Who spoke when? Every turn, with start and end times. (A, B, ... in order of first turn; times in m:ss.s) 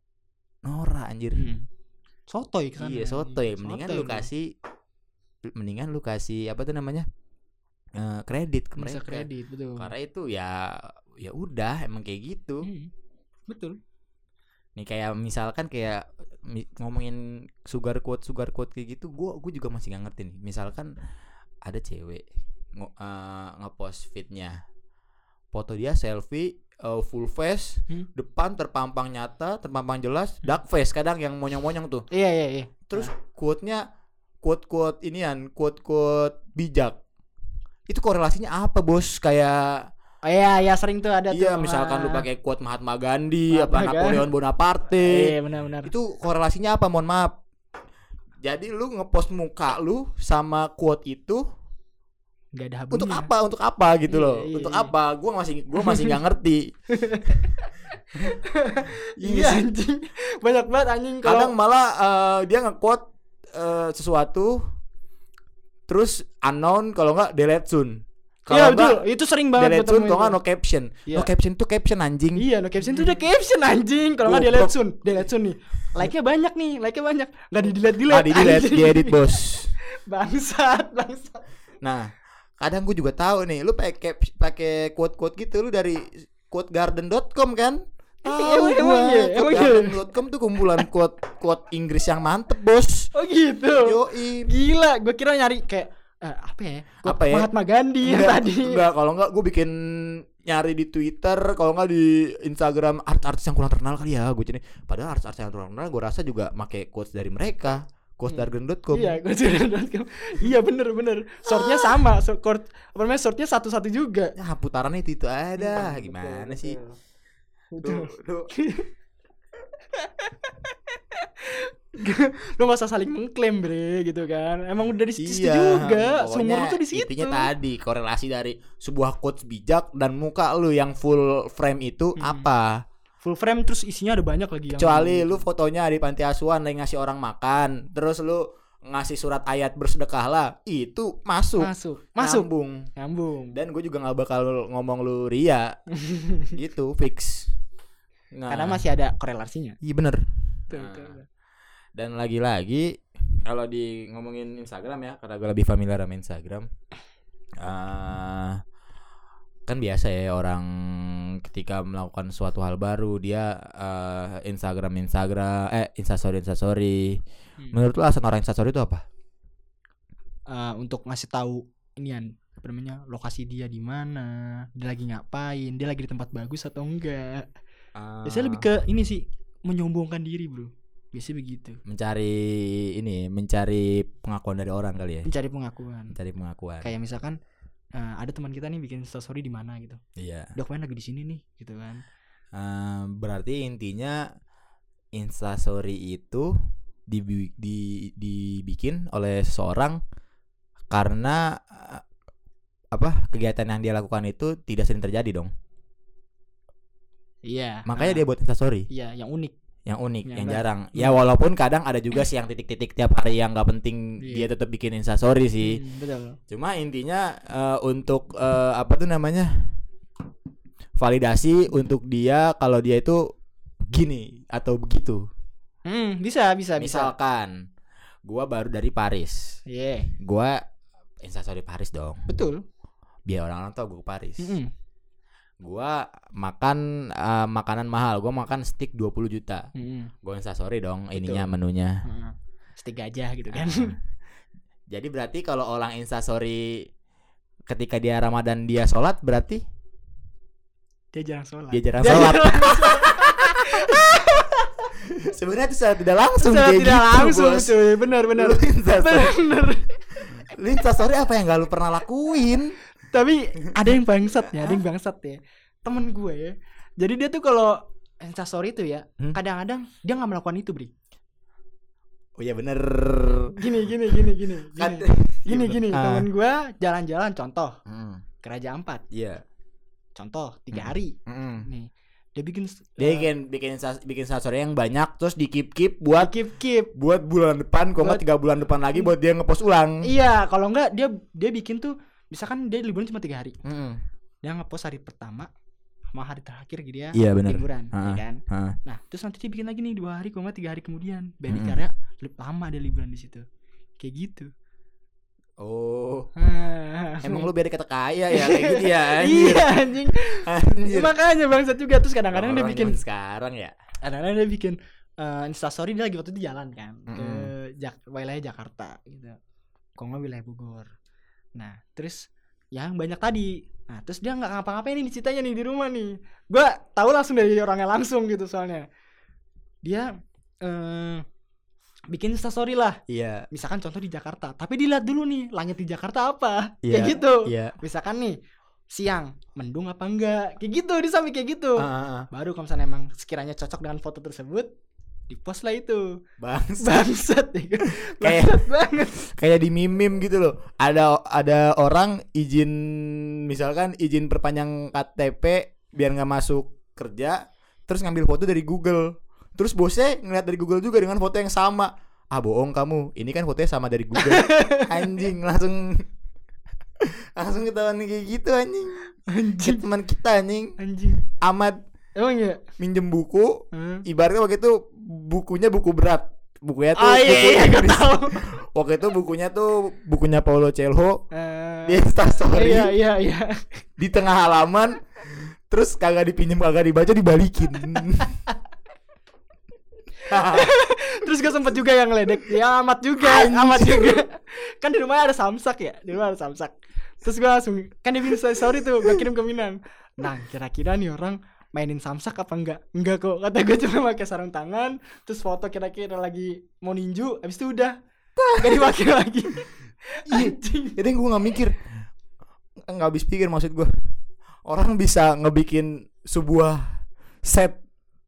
0:00.6-0:01.5 A
0:01.3-0:01.7 B
0:02.3-0:04.3 B
0:02.8-0:04.5 A
0:05.6-0:07.1 A
0:08.0-0:12.7 A
0:08.8-0:09.9 B
0:12.6-0:12.9 B
0:13.5-0:13.8 B
0:14.8-0:20.9 A
0:21.6-0:24.6 A
0:25.5-0:32.1 A
0:32.1-0:33.1 B
0:32.9-0:33.9 A
0:34.4-0:37.0 A
0:37.9-0:39.9 A
0:40.2-0:42.2 B
0:41.3-0:47.4 A
0:43.5-0:44.3 B
0:45.0-0:45.9 B
0:48.4-0:51.4 A
0:52.5-0:53.3 B
0:52.9-0:56.7 A
0:54.1-0:54.9 B
0:55.8-0:56.1 B
0:56.9-1:01.5 B
0:59.2-0:59.7 A
1:01.2-1:04.6 A
1:05.9-1:09.0 A
1:08.5-1:10.4 B
1:09.6-1:13.2 A
1:12.4-1:21.4 B
1:14.2-1:15.2 A
1:18.1-1:19.7 A
1:21.8-1:33.1 A
1:28.2-1:30.0 B
1:33.2-1:38.8 B
1:33.8-1:34.5 A
1:37.0-1:37.5 A
1:38.0-1:49.2 A
1:48.3-1:54.4 B
1:51.5-1:52.0 A
1:54.4-1:56.8 A
1:55.6-1:57.0 B
1:57.7-1:58.9 B
1:57.8-1:58.5 A
1:59.9-2:07.5 B
2:05.2-2:12.8 A
2:12.2-2:12.5 B
2:13.2-2:15.4 B
2:14.7-2:22.9 A
2:21.6-2:23.6 B
2:23.5-2:25.8 A
2:25.9-2:26.5 B
2:26.5-2:27.5 A
2:28.3-2:28.9 A
2:28.5-2:29.8 B
2:29.8-2:31.2 A
2:30.7-2:31.3 B
2:32.0-2:36.7 A
2:37.6-2:38.6 A
2:39.7-2:47.2 A
2:47.7-2:49.0 A
2:50.5-2:57.5 B
2:58.0-2:58.7 A
2:58.2-3:01.8 B
3:01.8-3:05.3 A
3:05.2-3:06.2 B
3:06.1-3:06.9 A
3:06.8-3:07.4 B
3:08.0-3:10.0 B
3:10.2-3:10.5 A
3:10.6-3:12.0 B
3:12.6-3:14.2 A
3:15.2-3:16.5 A
3:17.1-3:20.0 A
3:20.9-3:22.0 A
3:22.9-3:25.5 A
3:27.5-3:28.2 B
3:27.9-3:28.9 A
3:28.9-3:29.5 B
3:29.9-3:35.8 A
3:30.3-3:31.2 B
3:34.2-3:34.5 B
3:35.6-3:36.4 B
3:36.5-3:39.5 A
3:41.0-3:43.2 A
3:43.9-3:45.2 A
3:45.9-3:47.1 B
3:46.8-3:47.6 A
3:48.2-3:49.6 A
3:49.7-3:50.1 B
3:50.2-3:50.6 A
3:51.2-3:52.3 A
3:52.3-3:52.6 B
3:53.3-3:54.6 A
3:54.4-3:54.7 B
3:55.6-3:59.7 A
3:59.8-4:00.1 B
4:00.2-4:02.0 A
4:01.2-4:01.5 B
4:02.0-4:04.0 B
4:03.5-4:04.0 A
4:04.9-4:06.9 A
4:07.7-4:09.6 A
4:11.1-4:14.9 B
4:11.7-4:14.4 A
4:15.0-4:19.4 A
4:16.4-4:19.9 B
4:20.3-4:22.8 A
4:23.1-4:30.9 B
4:24.5-4:24.8 A
4:32.4-4:33.6 A
4:33.6-4:37.8 B
4:34.8-4:36.3 A
4:37.9-4:38.2 A
4:38.4-4:39.0 B
4:39.1-4:39.4 A
4:40.2-4:43.3 B
4:40.7-4:41.7 A
4:43.0-4:46.4 A
4:46.2-4:46.9 B
4:46.9-4:50.1 A
4:50.0-4:53.6 B
4:53.6-4:54.0 A
4:54.4-4:55.5 B
4:56.1-5:03.4 B
4:57.1-4:58.8 A
5:01.5-5:01.8 A
5:04.0-5:04.5 B
5:05.6-5:06.3 A
5:06.4-5:07.5 B
5:07.2-5:11.1 A
5:08.3-5:13.0 B
5:12.3-5:13.8 A
5:14.0-5:19.4 B
5:17.1-5:17.5 A
5:20.0-5:20.9 B
5:21.6-5:28.9 B
5:29.8-5:30.1 B
5:30.6-5:31.2 B
5:32.1-5:38.4 B
5:33.1-5:33.5 A
5:36.8-5:37.8 A
5:38.9-5:44.7 B
5:41.8-5:42.3 A
5:45.3-5:46.2 B
5:46.4-5:47.0 A
5:46.8-5:49.2 B
5:48.1-6:06.1 A
6:04.2-6:05.0 B
6:07.0-6:09.0 A
6:09.3-6:09.8 B
6:09.6-6:10.8 A
6:10.8-6:11.2 B
6:11.4-6:11.8 A
6:12.2-6:12.7 B
6:12.8-6:21.2 A
6:13.7-6:14.0 B
6:17.0-6:18.4 B
6:21.3-6:23.8 B
6:21.9-6:23.0 A
6:24.0-6:28.4 A
6:30.3-6:48.0 B
6:30.3-6:30.7 A
6:33.2-6:34.2 A
6:48.4-6:49.0 A
6:48.6-6:51.0 B
6:50.3-6:51.8 A
6:52.9-6:53.9 A
6:54.7-6:57.8 A